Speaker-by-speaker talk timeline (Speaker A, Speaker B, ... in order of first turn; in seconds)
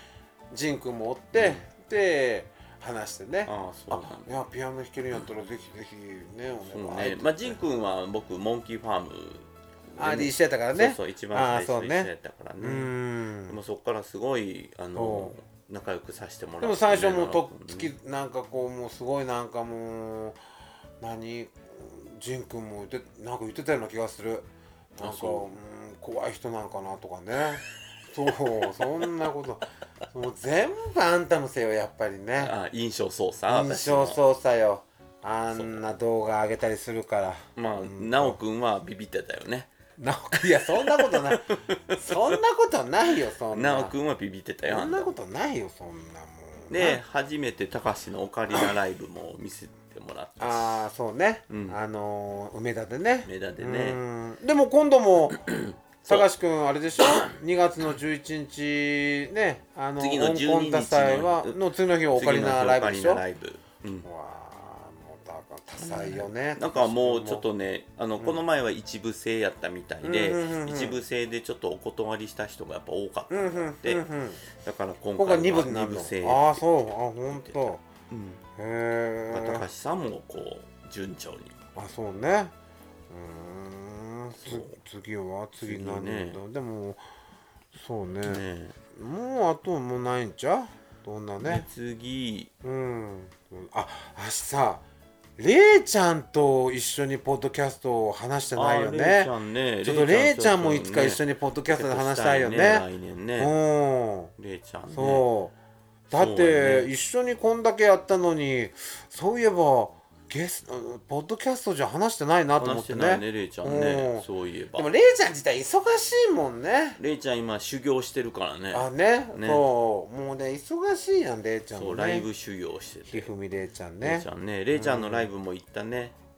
Speaker A: 0.5-7.6, 10.0-13.6, 14.9-15.3, 16.6-20.4, 21.0-24.5, 25.0-32.5, 33.5-38.4, 40.0-43.9, 44.6-47.0, 50.4-55.4, 56.1-63.2, 64.0-67.5, 70.0-71.0, 73.3-74.4, 75.2-77.8, 78.6-79.7, 81.8-82.5, 83.1-87.0, 87.7-88.4, 88.9-91.7, 92.6-94.8, 95.4-99.3, 99.8-102.8, 103.4-104.3, 104.9-105.5, 106.1-117.0, 118.7-122.2, 123.1-125.3
Speaker B: 1.3-1.6, 3.5-4.3, 6.7-12.9, 13.5-17.9, 25.0-25.5, 32.4-34.2, 35.5-35.9, 37.5-39.7, 40.6-42.2, 43.5-45.1, 46.7-50.8, 51.5-51.8, 53.2-54.0, 55.5-56.3, 60.0-61.6, 62.1-64.0, 65.8-74.0, 74.6-76.7, 77.3-78.4, 79.3-81.5, 84.4-84.8, 85.6-86.4, 88.2-88.8, 91.4-92.5, 98.5-103.5, 104.4-105.3, 106.1-106.9, 112.6-114.9, 117.0-119.6, 121.7-123.3, 124.0-126.1